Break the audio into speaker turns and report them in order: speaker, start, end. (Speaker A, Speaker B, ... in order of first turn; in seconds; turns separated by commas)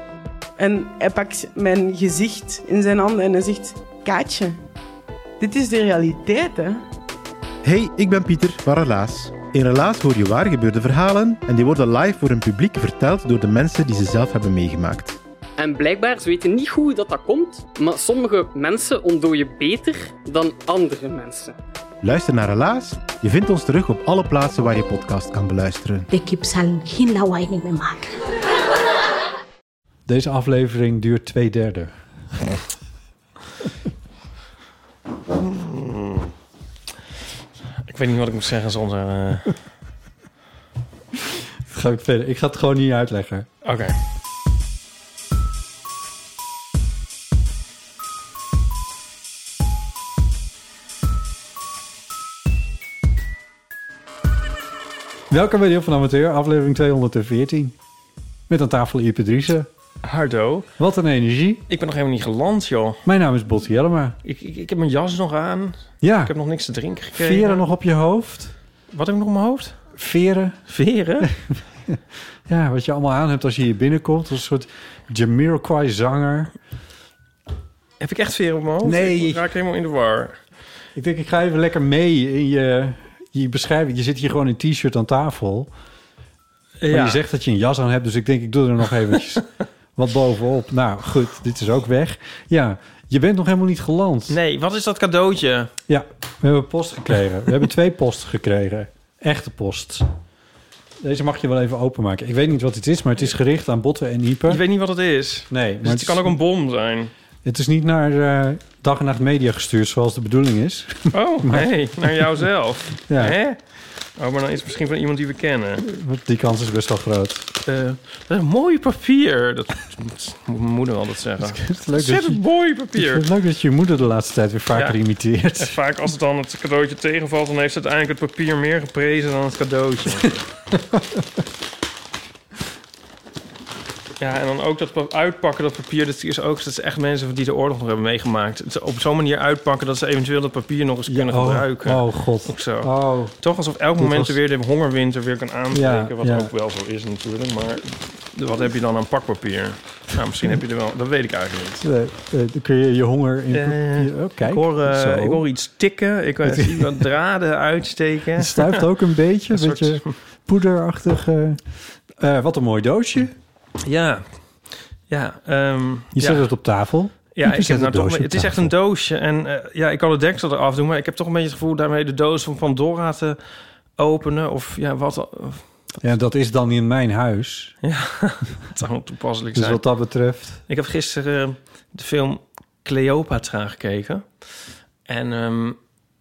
Speaker A: 0.6-4.6, Speaker A: 5.4-6.8, Speaker B: 7.6-15.2, Speaker C: 15.6-21.6, Speaker B: 22.0-26.1, Speaker D: 26.1-28.1, Speaker E: 30.1-31.9, Speaker F: 35.4-36.3, Speaker F: 37.8-39.6, Speaker E: 41.6-43.5, Speaker F: 43.6-44.0, Speaker E: 55.3-57.7, Speaker E: 58.5-59.7, Speaker F: 60.0-60.7, Speaker E: 60.8-61.6, Speaker F: 61.7-63.0, Speaker E: 63.0-64.2, Speaker F: 64.2-67.6, Speaker E: 66.0-66.3, Speaker E: 67.1-68.5, Speaker F: 68.9-69.8, Speaker E: 69.9-70.6, Speaker F: 70.7-71.3, Speaker E: 71.2-76.5, Speaker F: 78.0-80.4, Speaker E: 78.8-79.5, Speaker E: 80.9-85.7, Speaker F: 86.8-87.2, Speaker E: 86.9-94.3, Speaker F: 94.3-95.7, Speaker E: 95.9-100.1, Speaker E: 101.0-104.6, Speaker F: 104.5-107.1, Speaker E: 105.5-106.3, Speaker E: 107.4-112.4, Speaker F: 111.1-113.6, Speaker E: 113.1-113.4, Speaker F: 114.2-115.8, Speaker E: 115.8-117.5, Speaker F: 117.6-123.2, Speaker E: 121.4-125.8, Speaker F: 125.6-130.4, Speaker E: 130.7-131.2, Speaker F: 134.2-151.8, Speaker E: 141.1-143.3, Speaker E: 144.0-144.4, Speaker E: 145.7-146.5, Speaker E: 151.8-155.4, Speaker F: 153.5-158.8, Speaker E: 156.4-157.1, Speaker E: 158.4-161.6, Speaker F: 159.5-160.1, Speaker E: 162.2-163.3, Speaker F: 163.8-164.2, Speaker F: 165.1-166.5, Speaker E: 166.1-168.7, Speaker F: 167.3-173.4, Speaker F: 174.0-176.0, Speaker E: 176.0-177.8, Speaker F: 177.8-179.8, Speaker E: 179.5-180.6, Speaker F: 180.7-184.5, Speaker F: 185.1-185.8